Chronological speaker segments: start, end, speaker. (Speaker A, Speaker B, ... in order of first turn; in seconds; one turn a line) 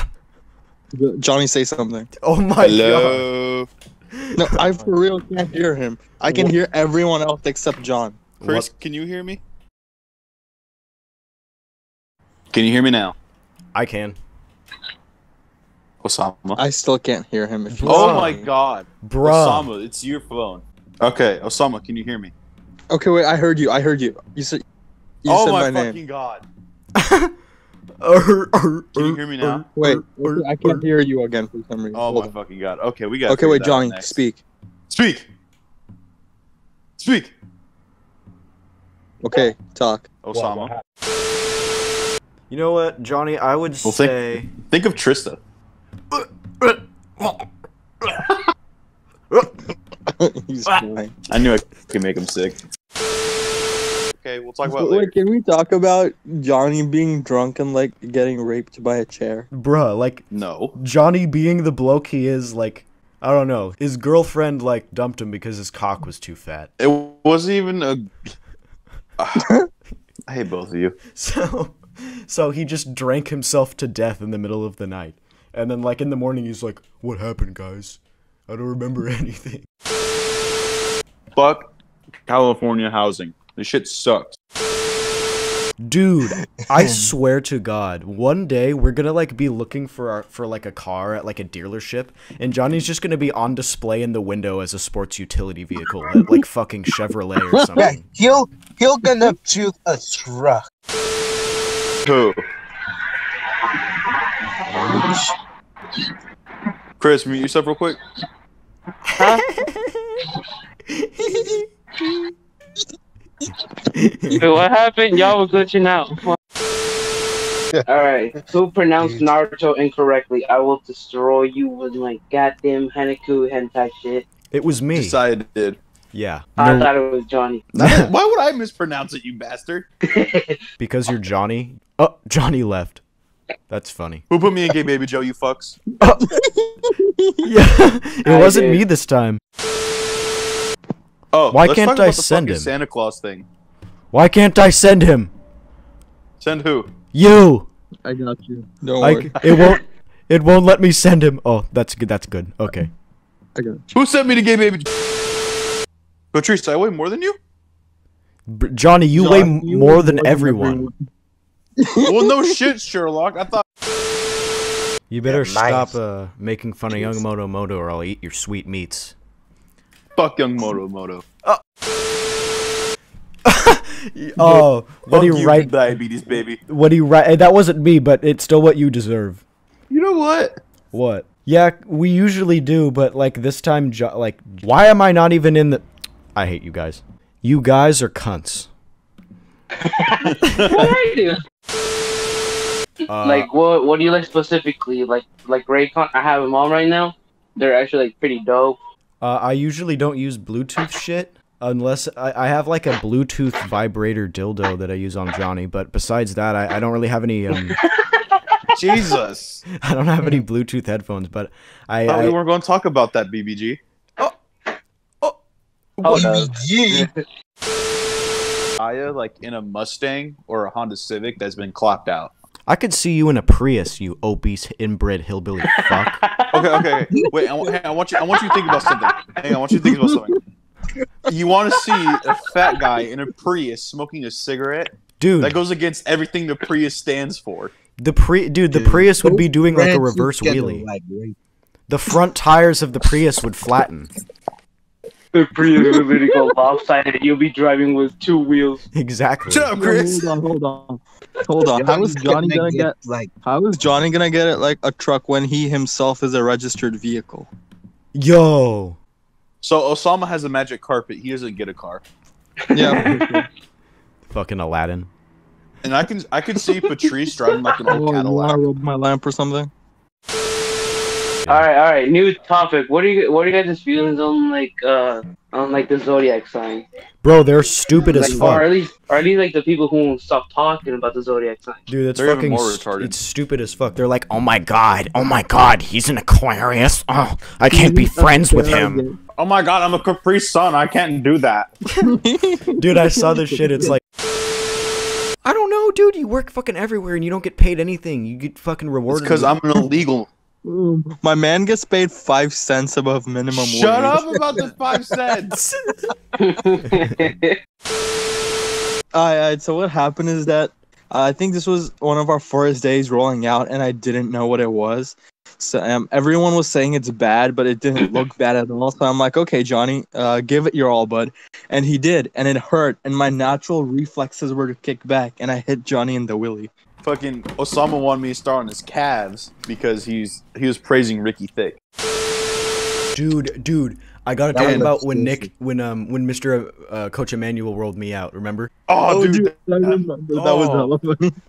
Speaker A: 0.9-2.1
Speaker B: 2.2-3.3
Speaker C: 2.6-3.7
Speaker B: 4.2-4.7
Speaker A: 4.3-8.2
Speaker B: 8.4-8.7
Speaker C: 8.4-9.4
Speaker C: 12.5-13.1
Speaker B: 13.7-14.2
Speaker C: 16.0-16.6
Speaker A: 16.6-18.4
Speaker B: 17.7-18.4
Speaker C: 17.8-22.3
Speaker B: 19.0-19.7
Speaker A: 22.9-24.6
Speaker A: 25.2-26.0
Speaker C: 25.3-26.4
Speaker B: 26.9-27.3
Speaker B: 28.0-30.8
Speaker C: 28.9-29.7
Speaker A: 29.8-32.3
Speaker C: 31.9-34.1
Speaker A: 33.3-34.4
Speaker C: 34.9-35.3
Speaker C: 37.0-37.3
Speaker A: 39.2-40.1
Speaker C: 40.2-40.7
Speaker B: 42.5-44.5
Speaker C: 43.8-45.4
Speaker B: 46.2-47.4
Speaker A: 50.2-51.1
Speaker C: 51.3-52.6
Speaker C: 54.2-55.1
Speaker A: 54.6-59.5
Speaker B: 59.5-60.2
Speaker C: 60.3-60.7
Speaker B: 60.7-66.7
Speaker C: 66.8-68.1
Speaker C: 69.2-69.5
Speaker C: 70.3-71.0
Speaker B: 71.1-79.7
Speaker C: 81.3-81.7
Speaker C: 82.3-84.4
Speaker B: 85.8-98.0
Speaker D: 86.7-87.1
Speaker D: 97.8-100.6
Speaker C: 102.0-102.4
Speaker C: 107.0-108.0
Speaker B: 109.1-110.2
Speaker E: 109.2-109.5
Speaker B: 110.9-112.2
Speaker B: 114.0-114.4
Speaker E: 114.3-116.3
Speaker E: 117.8-124.2
Speaker B: 124.5-125.2
Speaker C: 124.9-125.8
Speaker B: 126.1-126.9
Speaker E: 126.6-127.6
Speaker B: 127.7-128.1
Speaker C: 127.8-129.9
Speaker E: 130.1-130.6
Speaker B: 130.8-133.0
Speaker B: 133.7-134.2
Speaker C: 134.3-135.8
Speaker B: 136.0-136.4
Speaker A: 136.3-137.4
Speaker B: 137.4-139.4
Speaker E: 138.2-138.8
Speaker C: 141.3-143.4
Speaker B: 141.5-142.7
Speaker B: 144.1-145.3
Speaker C: 146.4-146.9
Speaker B: 147.1-147.7
Speaker A: 148.0-149.7
Speaker B: 149.0-152.9
Speaker A: 153.5-153.8
Speaker C: 153.9-154.9
Speaker C: 156.3-157.4
Speaker B: 158.5-160.9
Speaker A: 159.1-160.9
Speaker A: 161.8-162.5
Speaker C: 162.0-163.6
Speaker B: 165.1-169.1
Speaker D: 165.2-165.9
Speaker C: 170.2-171.2
Speaker B: 173.4-175.7
Speaker C: 174.4-176.6
Speaker B: 176.7-179.4
Speaker C: 179.9-180.6
Speaker B: 180.9-185.8
Speaker B: 186.3-188.7
Speaker C: 190.2-190.9
Speaker E: 190.6-191.4
Speaker B: 193.1-193.5
Speaker E: 193.2-198.8
Speaker B: 199.2-207.8
Speaker C: 208.7-209.6
Speaker B: 209.8-212.3
Speaker C: 212.1-213.8
Speaker B: 216.0-216.4
Speaker D: 216.1-217.1
Speaker E: 216.1-216.3
Speaker C: 218.8-222.3
Speaker B: 222.7-226.2
Speaker C: 226.5-230.4
Speaker A: 229.8-230.1
Speaker C: 231.3-237.7
Speaker B: 235.2-235.6
Speaker B: 238.0-240.8
Speaker D: 238.7-241.3
Speaker B: 241.9-244.1
Speaker E: 245.3-248.8
Speaker B: 248.9-249.7
Speaker C: 249.5-250.3
Speaker A: 249.7-257.5
Speaker D: 251.6-253.3
Speaker B: 258.1-259.0
Speaker C: 259.6-262.0
Speaker A: 262.7-263.5
Speaker B: 262.9-263.1
Speaker B: 264.3-265.1
Speaker C: 265.8-268.6
Speaker A: 267.9-269.7
Speaker E: 271.5-276.8
Speaker B: 277.2-278.7
Speaker E: 277.9-281.8
Speaker D: 278.1-278.5
Speaker B: 281.9-289.0
Speaker C: 282.1-283.1
Speaker A: 287.7-289.2
Speaker C: 289.4-291.7
Speaker A: 292.0-293.9
Speaker B: 292.8-294.0
Speaker B: 295.4-299.5
Speaker C: 299.1-300.3
Speaker A: 300.6-304.4
Speaker C: 303.5-305.6
Speaker E: 306.5-307.6
Speaker A: 309.1-326.7
Speaker C: 327.0-331.8
Speaker B: 333.1-338.7
Speaker D: 334.5-335.5
Speaker C: 334.6-334.9
Speaker C: 338.9-340.9
Speaker A: 339.0-341.4